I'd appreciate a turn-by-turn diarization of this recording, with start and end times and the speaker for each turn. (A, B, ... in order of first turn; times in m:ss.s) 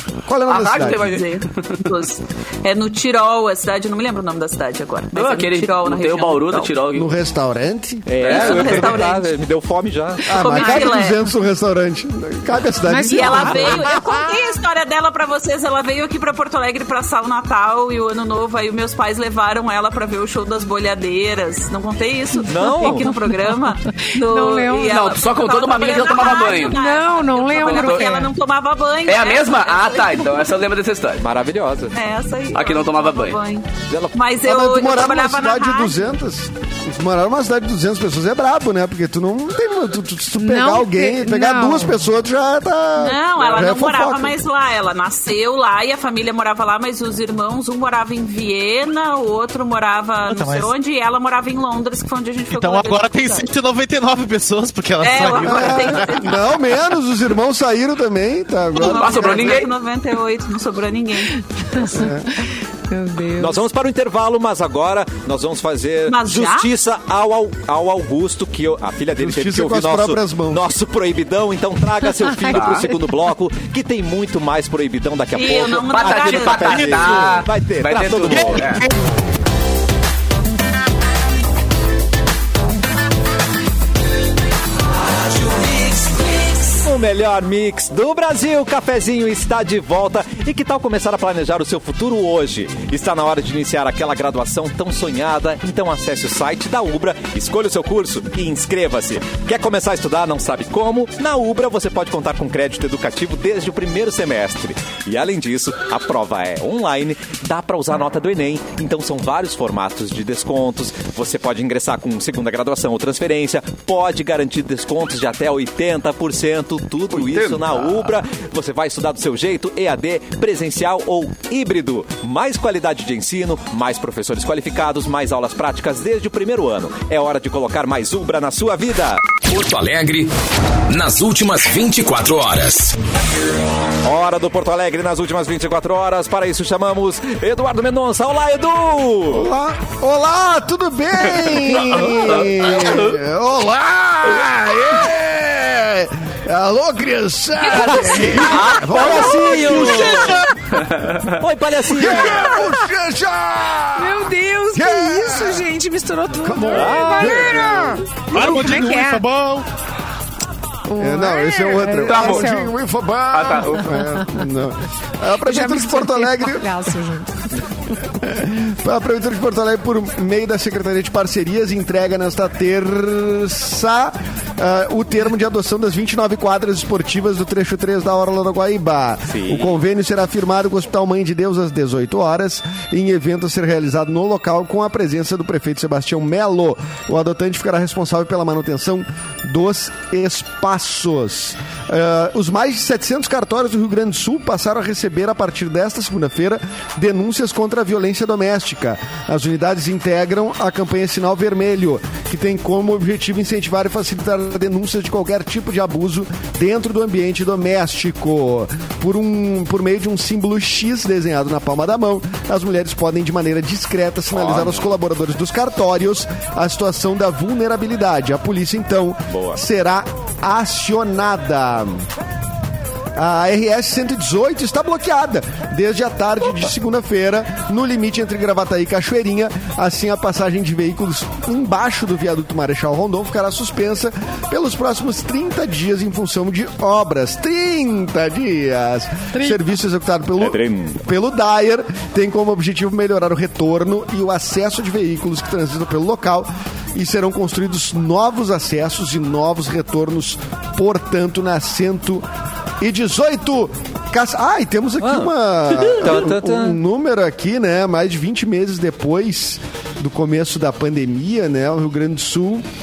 0:00.3-0:01.2 A
0:00.5-0:01.8 B
0:00.6-0:06.7 C
0:05.1-0:07.1 B
0:06.9-0:08.1 A
0:08.1-0:10.7 D
0:08.2-0:09.0 B
0:08.2-0:09.4 C
0:10.3-0:13.9 A
0:10.3-0:11.2 C
0:12.9-0:13.7 E
0:13.1-0:30.5 C
0:22.5-0:23.1 D
0:22.5-0:23.1 E
0:24.0-0:25.1 E
0:24.8-0:26.8 B
0:26.5-0:28.3 E
0:27.6-0:28.2 B
0:29.1-0:31.2 B
0:31.2-0:32.0 D
0:31.9-0:36.1 C
0:32.5-0:33.4 B
0:33.9-0:34.2 D
0:34.4-0:44.4 A
0:40.4-0:42.0 E
0:43.0-0:53.5 C
0:50.3-0:50.7 F
0:52.5-0:56.2 F
0:55.0-0:56.6 C
0:55.4-0:59.6 A
0:58.8-1:01.4 C
0:58.8-0:59.7 B
1:01.7-1:03.7 E
1:01.9-1:02.3 A
1:03.4-1:18.8 D
1:06.1-1:06.7 C
1:09.2-1:10.6 A
1:12.2-1:13.0 E
1:12.5-1:12.9 B
1:15.3-1:17.0 C
1:15.9-1:18.8 B
1:16.6-1:17.5 F
1:18.3-1:18.9 F
1:26.8-2:09.4 D
1:57.1-1:58.1 B
2:09.5-2:10.3 G
2:10.9-2:13.0 G
2:14.0-2:19.5 D
2:19.3-2:30.4 A
2:22.0-2:23.2 B
2:27.8-2:30.4 D
2:28.0-2:28.4 E
2:29.6-2:30.3 F
2:31.0-2:31.2 B
2:31.2-2:32.6 D
2:31.9-2:35.6 A
2:32.0-2:32.7 E
2:34.0-2:39.3 E
2:36.4-2:38.0 A
2:36.8-2:37.7 D
2:38.3-2:39.7 F
2:40.9-2:42.7 E
2:41.0-2:46.7 A
2:42.1-2:42.5 B
2:43.3-2:44.0 B
2:45.4-2:47.4 E
2:48.2-3:42.0 A
2:59.3-2:59.8 D
3:34.4-3:34.8 D
3:39.3-3:39.6 D
3:43.2-4:12.3 A
4:00.4-4:01.0 D
4:12.8-4:22.7 A
4:15.0-4:16.8 D